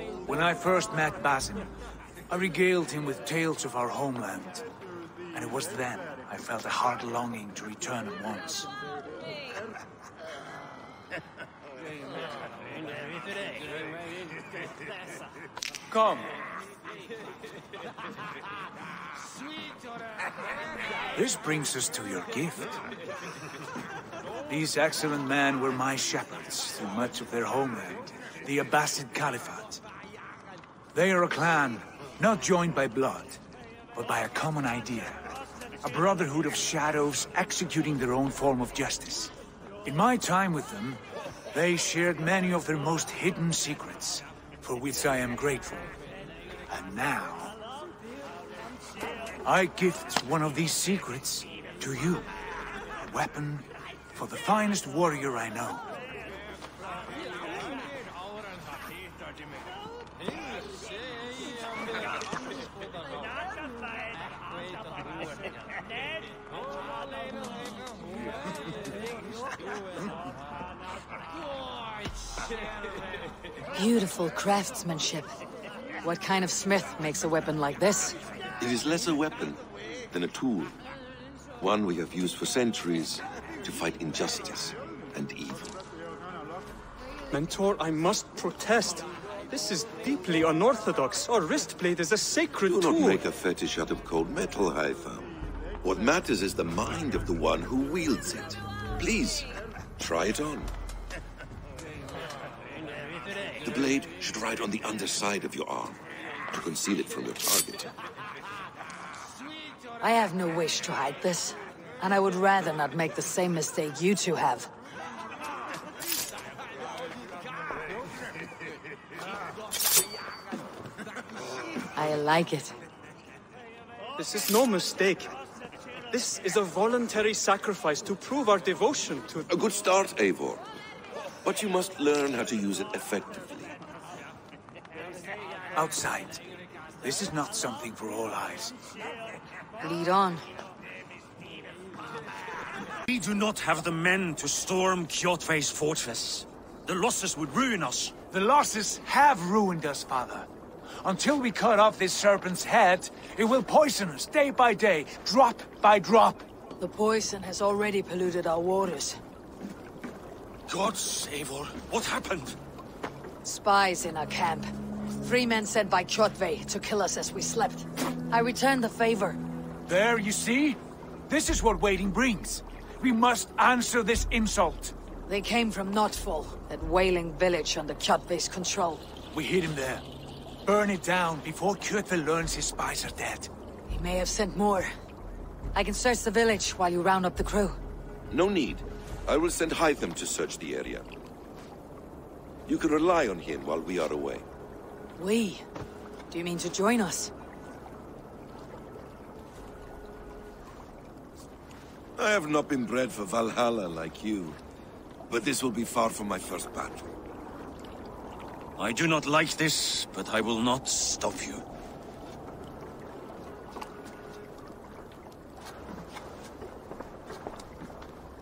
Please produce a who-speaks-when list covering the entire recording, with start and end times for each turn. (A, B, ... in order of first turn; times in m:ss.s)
0:00.2-0:01.7 A
0:02.3-0:04.6 A
0:05.3-0:08.7 A
0:15.9-0:16.3 A
0:21.2-0:22.8 A
0:24.5-0:29.8 A
0:30.9-0:33.4 A
0:33.9-0:35.2 A
0:35.8-0:39.3 A
0:39.8-0:41.0 A
0:41.5-0:45.9 A
0:46.7-0:47.5 A
0:49.4-0:52.2 A
0:53.0-0:55.8 A
1:13.7-1:15.4 B
1:16.0-1:18.2 B
1:18.6-1:20.7 C
1:21.6-1:25.8 C
1:27.3-1:33.2 D
1:32.6-1:35.3 C
1:35.8-1:39.5 C
1:40.0-1:40.7 C
1:43.6-1:46.0 C
1:46.5-1:47.9 C
1:50.0-1:54.7 B
2:01.9-2:02.8 B
2:04.2-2:05.3 D
2:06.1-2:09.5 D
2:09.5-2:10.6 C
2:11.4-2:13.7 C
2:15.8-2:16.4 A
2:17.0-2:18.7 A
2:19.8-2:20.4 B
2:23.1-2:28.1 E
2:28.3-2:30.5 A
2:31.0-2:36.4 A
2:36.8-2:39.2 B
2:40.7-2:42.6 E
2:43.4-2:44.7 B
2:45.2-2:49.4 B
2:49.9-2:54.9 A
2:55.3-2:59.0 B
2:59.3-3:00.0 A
3:00.6-3:03.5 A
3:03.9-3:04.9 B
3:05.7-3:07.8 B
3:08.3-3:11.1 C
3:12.6-3:14.4 C
3:15.2-3:15.6 B
3:16.3-3:17.3 B
3:22.2-3:24.6 C
3:25.3-3:27.1 C
3:28.8-3:31.6 E